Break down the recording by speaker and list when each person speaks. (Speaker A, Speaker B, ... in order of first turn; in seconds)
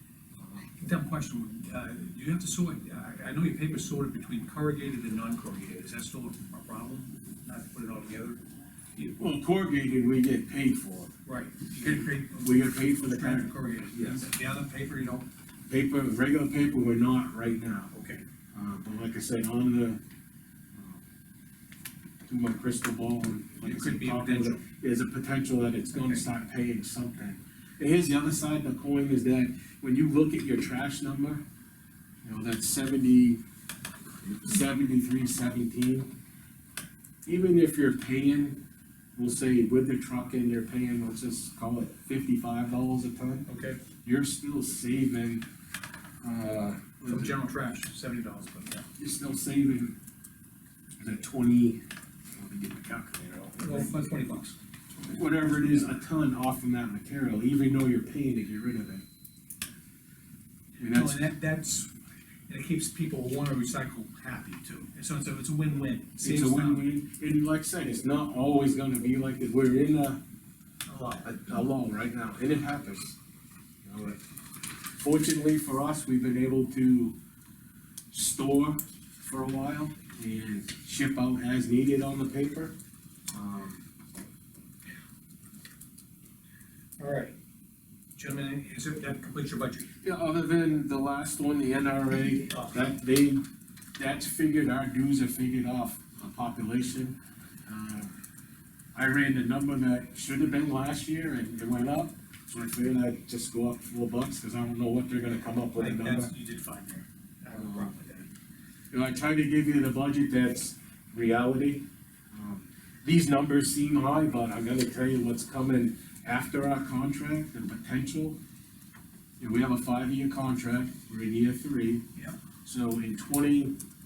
Speaker A: 0.8-8.4, 11.3-15.3, 17.9-18.2, 23.6-24.6, 25.9-26.2, 43.5-43.8, 47.0-48.8, 53.6-55.9, 60.8-61.9, 62.5-66.8, 70.9-71.4, 87.0-87.3, 88.2-89.9, 92.5-92.7, 105.8-108.3
Speaker B: 9.2-11.1, 11.8-14.3, 15.7-17.9, 18.5-20.0, 22.3-31.4, 32.2-33.4, 34.2-36.1, 37.3-38.6, 39.2-43.5, 44.0-45.4, 46.2-47.4, 49.0-50.0, 51.0-51.8, 52.4-53.9, 55.1-59.0, 60.8-61.2, 66.2-70.2, 71.0-73.2, 73.8-74.2, 74.9-77.2, 78.1-82.7, 83.3-83.8, 90.0-93.4, 94.0-97.2, 97.7-98.1, 99.0-106.3, 107.5-107.9, 108.9-118.4, 119.4-122.0, 122.6-123.8